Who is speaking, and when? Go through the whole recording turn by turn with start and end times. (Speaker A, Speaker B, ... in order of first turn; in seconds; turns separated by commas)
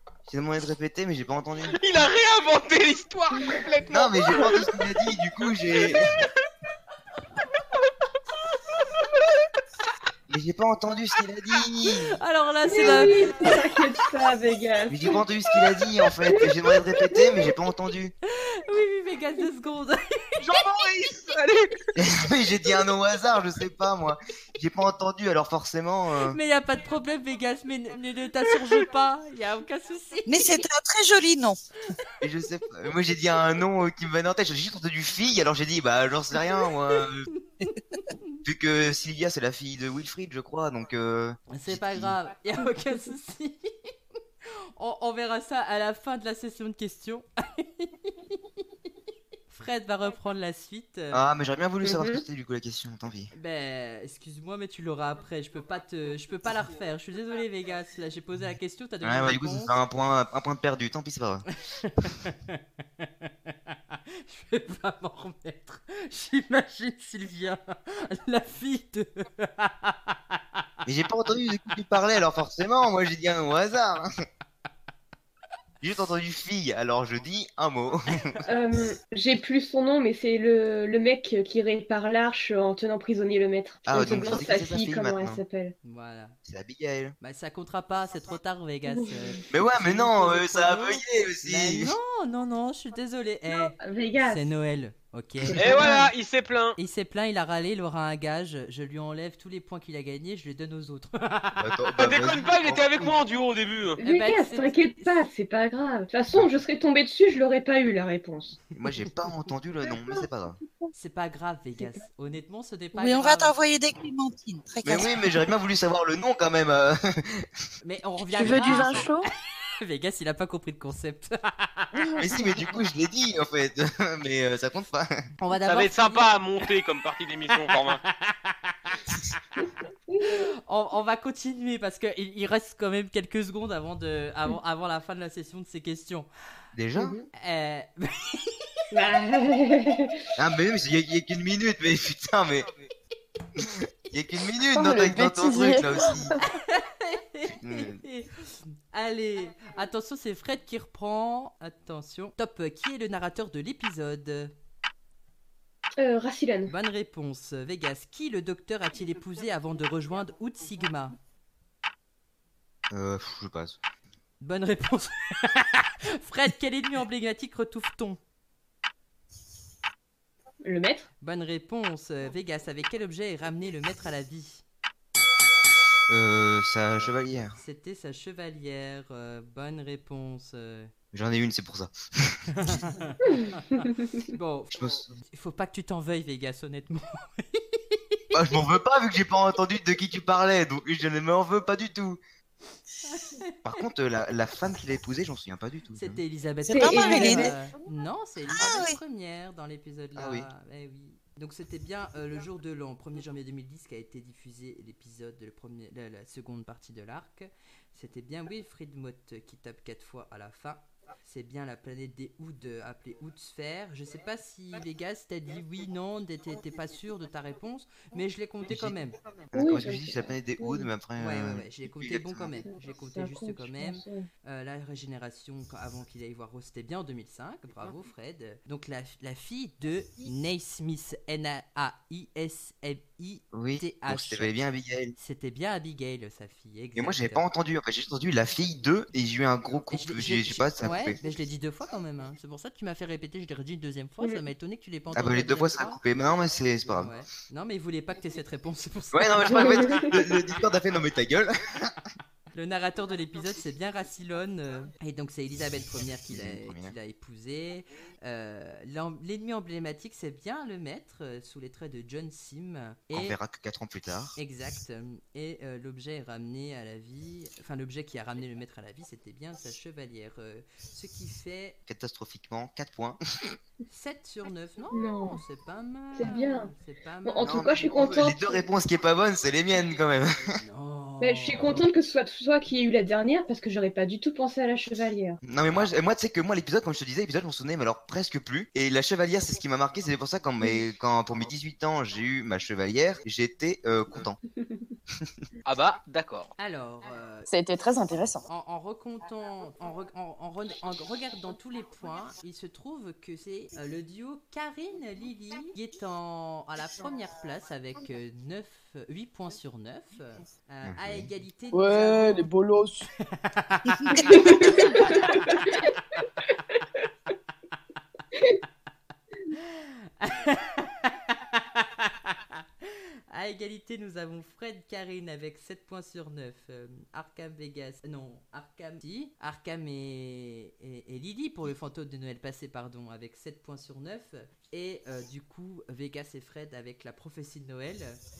Speaker A: 0.3-1.8, Speaker B: 1.6-4.8, Speaker A: 3.9-6.1, Speaker B: 5.4-6.0, Speaker A: 10.3-12.1, Speaker C: 12.2-13.4, Speaker D: 12.7-15.2, Speaker A: 14.9-18.1, Speaker C: 18.4-20.4, Speaker B: 20.4-21.9, Speaker A: 22.0-26.4, Speaker C: 26.3-30.6, Speaker E: 30.2-31.6, Speaker A: 32.2-37.3, Speaker C: 37.3-38.4, Speaker A: 38.4-42.2, Speaker C: 41.5-43.9, Speaker C: 44.5-48.4, Speaker C: 49.5-51.2, Speaker A: 51.1-53.3, Speaker D: 51.8-52.2, Speaker C: 53.3-59.7, Speaker A: 59.0-61.4, Speaker C: 61.6-70.2, Speaker A: 70.8-74.0, Speaker A: 75.8-78.3, Speaker D: 78.5-85.7, Speaker A: 83.8-85.4, Speaker C: 85.8-86.3, Speaker A: 86.4-87.1, Speaker C: 87.2-96.0, Speaker D: 89.0-89.3, Speaker A: 89.5-91.9, Speaker D: 93.6-94.5, Speaker D: 95.5-96.1, Speaker B: 95.5-96.8, Speaker C: 96.8-101.7, Speaker A: 101.5-103.1, Speaker B: 102.0-104.0, Speaker D: 104.0-108.6, Speaker C: 104.0-105.2, Speaker A: 108.8-110.6, Speaker C: 110.9-113.5, Speaker E: 112.9-115.1, Speaker A: 114.8-117.5, Speaker C: 117.8-122.1, Speaker F: 118.3-119.3, Speaker F: 121.9-122.4, Speaker A: 122.2-125.2, Speaker C: 125.4-126.4, Speaker B: 125.6-128.0, Speaker C: 128.0-128.9, Speaker D: 130.1-130.4, Speaker C: 130.2-136.3, Speaker A: 136.7-137.2, Speaker D: 136.9-137.3, Speaker C: 137.3-138.8, Speaker D: 138.9-140.2, Speaker A: 140.4-142.8, Speaker A: 143.6-146.4, Speaker F: 144.7-146.4, Speaker C: 146.4-154.5, Speaker A: 147.6-148.0, Speaker D: 156.0-156.7, Speaker C: 156.7-161.2, Speaker A: 162.9-163.8, Speaker C: 164.4-168.2, Speaker D: 170.6-171.1, Speaker C: 171.2-174.6, Speaker A: 176.1-177.5, Speaker C: 176.9-180.9, Speaker A: 181.1-182.7, Speaker C: 182.5-188.2, Speaker D: 183.3-183.9, Speaker A: 184.7-185.1, Speaker A: 188.3-192.2, Speaker C: 193.1-193.5, Speaker A: 193.6-196.2, Speaker C: 195.9-219.2, Speaker E: 196.6-197.5, Speaker D: 196.7-197.6, Speaker E: 198.5-199.0, Speaker A: 200.2-200.5, Speaker A: 218.7-218.9, Speaker A: 219.5-222.6, Speaker D: 219.5-220.9, Speaker C: 221.2-234.5, Speaker D: 222.5-224.3, Speaker A: 233.5-235.2, Speaker C: 235.2-237.4, Speaker A: 236.9-241.2, Speaker C: 240.0-246.0, Speaker A: 245.1-247.1, Speaker C: 246.9-250.1, Speaker A: 249.1-251.9, Speaker D: 249.5-250.0, Speaker C: 252.5-263.4, Speaker A: 256.3-256.9, Speaker A: 263.1-264.4, Speaker C: 264.4-271.8, Speaker A: 271.9-273.2, Speaker C: 273.9-277.5, Speaker D: 274.9-275.4, Speaker D: 276.1-276.7, Speaker D: 277.2-278.6, Speaker A: 277.4-280.5, Speaker C: 280.6-281.8, Speaker D: 281.2-285.4, Speaker A: 285.4-294.4, Speaker B: 295.6-296.5, Speaker C: 296.6-297.5, Speaker F: 297.5-298.4, Speaker C: 298.5-312.5, Speaker A: 310.8-311.3, Speaker F: 311.7-313.1, Speaker C: 313.2-315.6, Speaker E: 313.9-314.2, Speaker D: 314.3-315.9, Speaker D: 318.3-318.6, Speaker C: 319.5-338.2